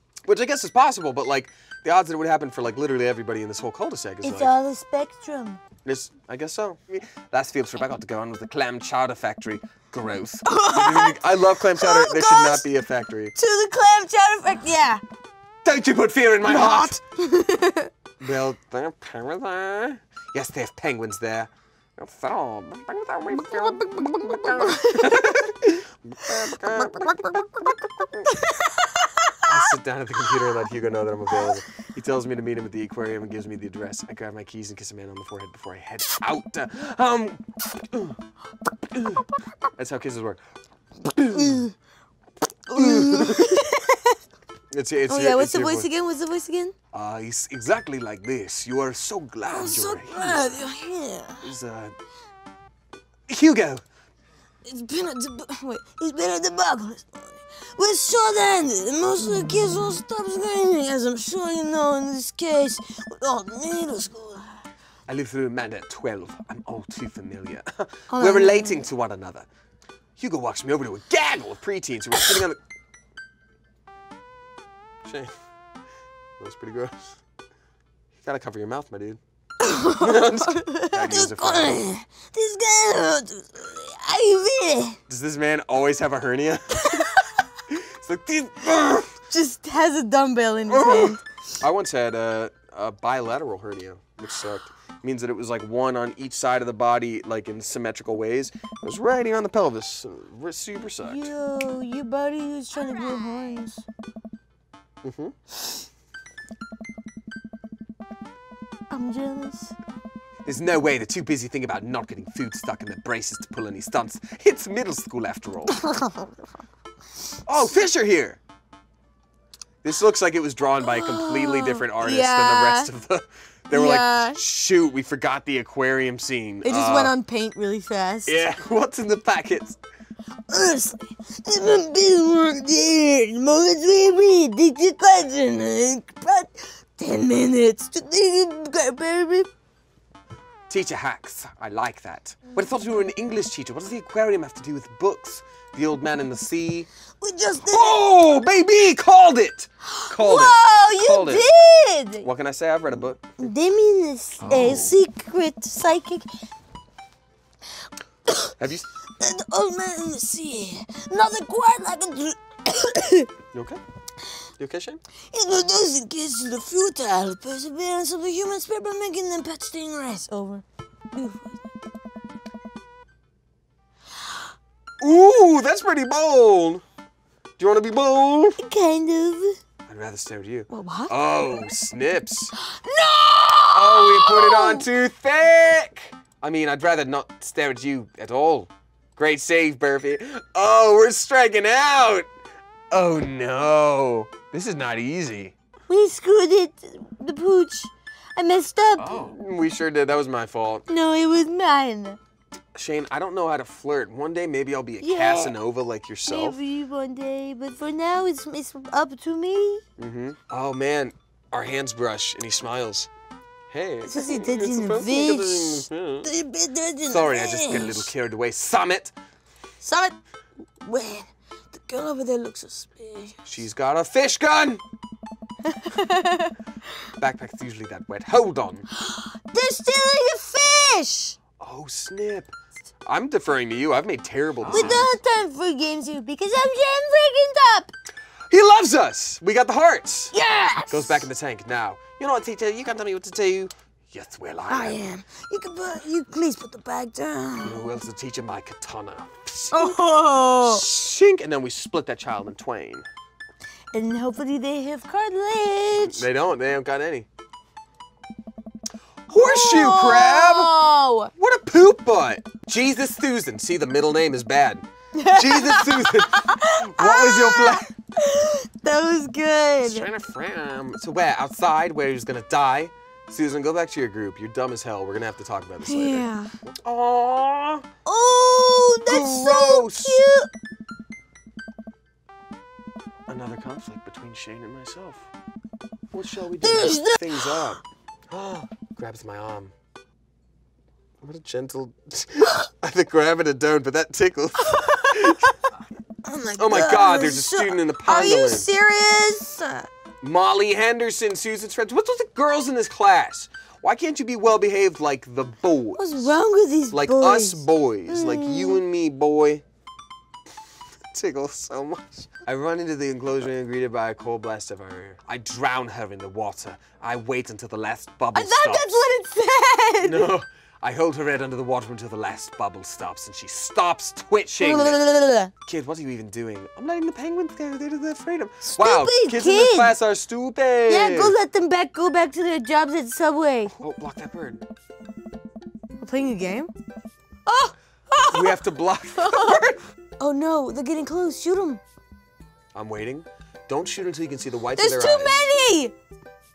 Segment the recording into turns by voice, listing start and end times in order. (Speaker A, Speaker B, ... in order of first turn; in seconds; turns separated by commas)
Speaker A: 0.2-4.5, Speaker B: 4.2-5.6, Speaker A: 5.8-13.3, Speaker B: 10.4-12.6, Speaker B: 13.3-15.0, Speaker A: 15.6-17.0, Speaker B: 16.4-17.9, Speaker A: 18.2-28.3, Speaker B: 23.6-25.3, Speaker B: 28.5-29.3, Speaker A: 29.4-38.2, Speaker A: 38.9-40.4, Speaker A: 41.0-41.6, Speaker B: 41.3-41.7, Speaker B: 42.7-44.2, Speaker A: 42.7-43.7, Speaker A: 44.7-45.9, Speaker B: 45.1-46.7, Speaker A: 46.9-50.5, Speaker B: 49.5-51.5, Speaker A: 51.4-51.9, Speaker A: 53.3-53.8, Speaker B: 54.6-64.5, Speaker A: 65.1-69.5, Speaker B: 68.1-68.9, Speaker A: 70.2-72.6, Speaker A: 75.0-75.3, Speaker A: 76.4-77.2, Speaker A: 78.2-79.2, Speaker B: 79.6-85.0, Speaker A: 79.9-81.8, Speaker A: 85.1-87.0, Speaker B: 86.8-87.2, Speaker A: 87.7-89.2, Speaker B: 89.3-91.2, Speaker A: 90.7-101.3, Speaker B: 101.0-103.8, Speaker A: 105.0-105.3, Speaker B: 108.9-109.7, Speaker A: 110.4-115.8, Speaker B: 115.7-116.3, Speaker A: 117.5-118.4, Speaker A: 119.8-127.1, Speaker B: 120.8-122.9, Speaker B: 123.7-124.4, Speaker B: 126.6-128.4, Speaker A: 128.2-129.8, Speaker B: 130.5-139.5, Speaker A: 140.7-146.9, Speaker B: 147.2-148.0, Speaker A: 147.6-151.5, Speaker B: 149.9-152.3, Speaker A: 152.2-153.5, Speaker B: 153.4-156.3, Speaker A: 154.4-154.9, Speaker A: 158.6-158.8, Speaker B: 159.2-163.3, Speaker A: 163.5-163.8, Speaker A: 164.6-165.0, Speaker B: 165.3-171.6, Speaker A: 175.0-176.8, Speaker A: 177.6-178.6, Speaker B: 178.6-179.6, Speaker A: 179.9-182.5, Speaker B: 180.7-181.1, Speaker B: 182.6-184.8, Speaker A: 183.7-192.3, Speaker A: 192.9-195.5, Speaker B: 195.9-199.3, Speaker A: 199.0-200.8, Speaker B: 200.9-202.2, Speaker A: 202.7-206.6, Speaker B: 205.0-205.5, Speaker B: 206.3-209.8, Speaker A: 210.0-213.1, Speaker A: 213.7-216.3, Speaker B: 214.0-218.1, Speaker A: 217.1-219.1, Speaker B: 219.8-220.2, Speaker B: 220.8-223.4, Speaker A: 223.4-224.8, Speaker B: 225.7-226.5, Speaker A: 227.2-228.8, Speaker B: 228.9-231.4, Speaker A: 231.6-232.5, Speaker A: 233.1-235.1, Speaker B: 234.7-237.9, Speaker A: 238.5-240.3, Speaker B: 240.3-241.2, Speaker A: 240.9-245.0, Speaker B: 244.7-247.8, Speaker A: 247.6-249.9, Speaker B: 249.7-250.8, Speaker A: 250.6-253.1, Speaker B: 253.9-256.2, Speaker A: 256.0-257.3, Speaker A: 259.3-260.7, Speaker B: 259.3-261.3, Speaker A: 261.4-267.9, Speaker B: 265.1-270.1, Speaker A: 269.8-277.8, Speaker B: 275.8-276.5, Speaker B: 278.0-280.5, Speaker A: 279.1-280.2, Speaker A: 283.3-285.3, Speaker A: 286.1-289.7, Speaker B: 286.6-287.6, Speaker A: 291.2-295.7, Speaker B: 294.6-295.4, Speaker B: 296.2-299.9, Speaker A: 296.6-298.7, Speaker A: 300.2-306.3, Speaker B: 305.9-308.8, Speaker A: 306.9-309.6, Speaker A: 311.1-318.9, Speaker B: 318.3-320.3, Speaker A: 320.0-325.0, Speaker B: 324.6-325.5, Speaker A: 325.6-331.3, Speaker B: 328.6-329.9, Speaker B: 330.9-333.7, Speaker A: 333.7-334.6, Speaker B: 336.0-336.7, Speaker B: 337.4-338.6, Speaker A: 338.3-339.8, Speaker B: 339.2-339.6, Speaker B: 340.2-341.8, Speaker A: 342.7-345.5, Speaker B: 344.8-345.9